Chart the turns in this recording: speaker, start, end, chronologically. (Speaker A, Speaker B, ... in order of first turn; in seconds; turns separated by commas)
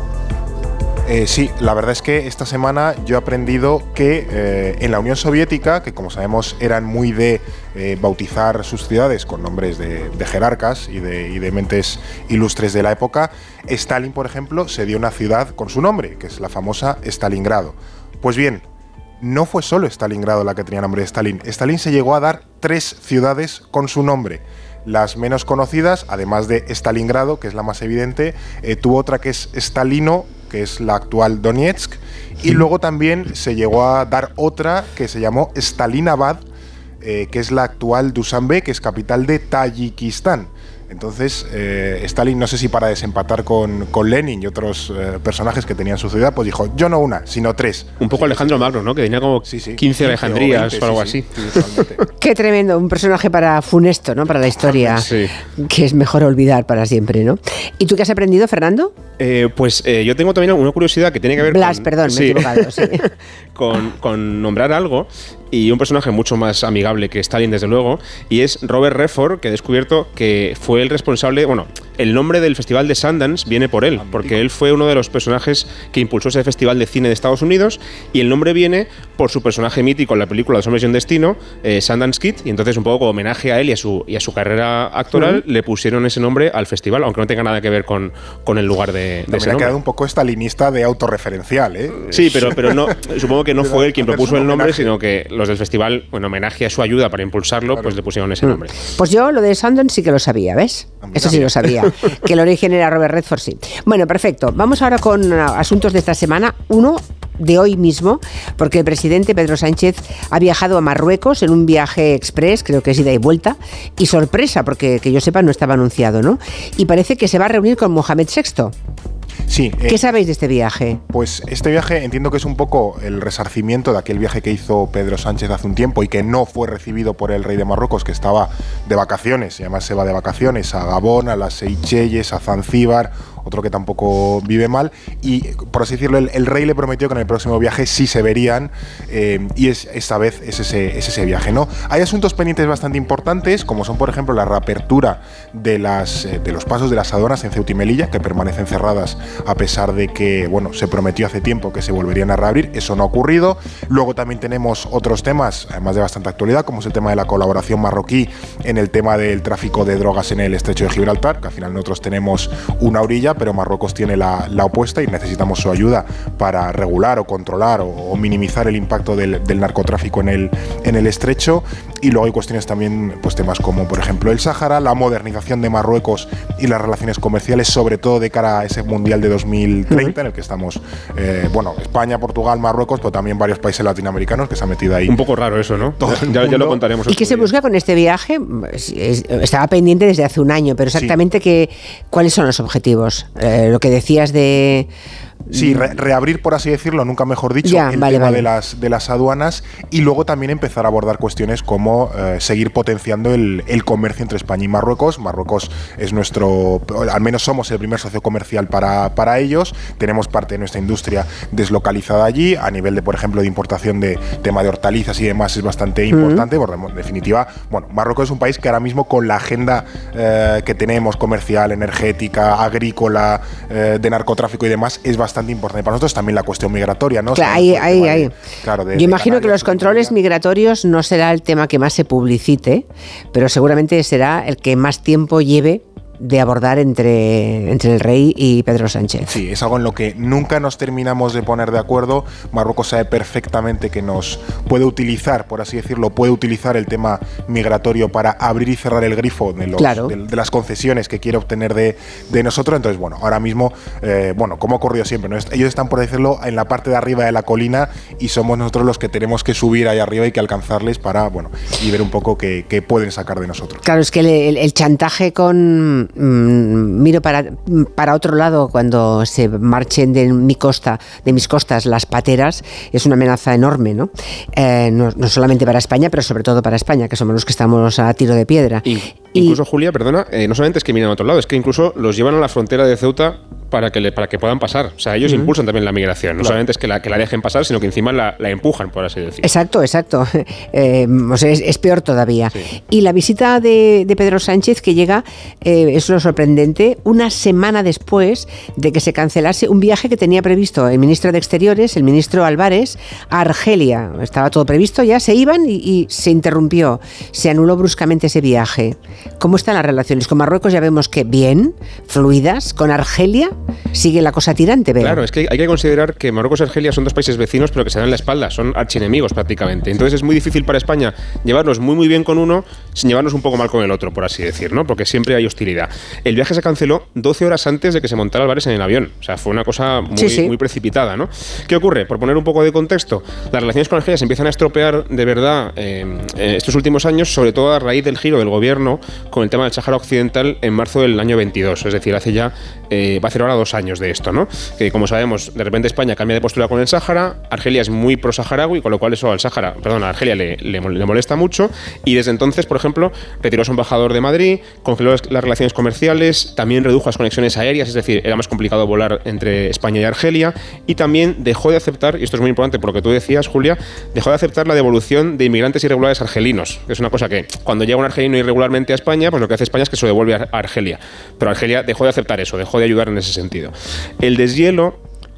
Speaker A: 1.1-18.6, Speaker A: 19.2-36.4, Speaker A: 37.0-48.7, Speaker B: 48.0-51.8, Speaker A: 49.5-52.0, Speaker C: 52.2-58.9, Speaker B: 54.9-55.3, Speaker B: 59.2-89.7, Speaker C: 61.4-63.1, Speaker A: 74.0-74.4, Speaker C: 85.1-85.4, Speaker A: 89.3-94.9, Speaker B: 92.1-98.7, Speaker C: 98.4-118.7, Speaker A: 101.0-101.5, Speaker A: 119.5-120.0, Speaker C: 119.9-121.0, Speaker A: 121.1-186.8, Speaker B: 185.1-187.5, Speaker C: 187.1-194.9, Speaker C: 195.5-195.8, Speaker A: 195.5-230.1, Speaker C: 197.6-198.5, Speaker C: 216.1-216.5, Speaker C: 227.3-228.3, Speaker C: 228.9-239.3, Speaker A: 239.3-263.8, Speaker C: 249.8-250.1, Speaker C: 263.8-279.6, Speaker B: 278.9-289.5, Speaker C: 285.2-285.5, Speaker C: 289.4-315.2, Speaker B: 315.0-375.0, Speaker C: 330.1-330.5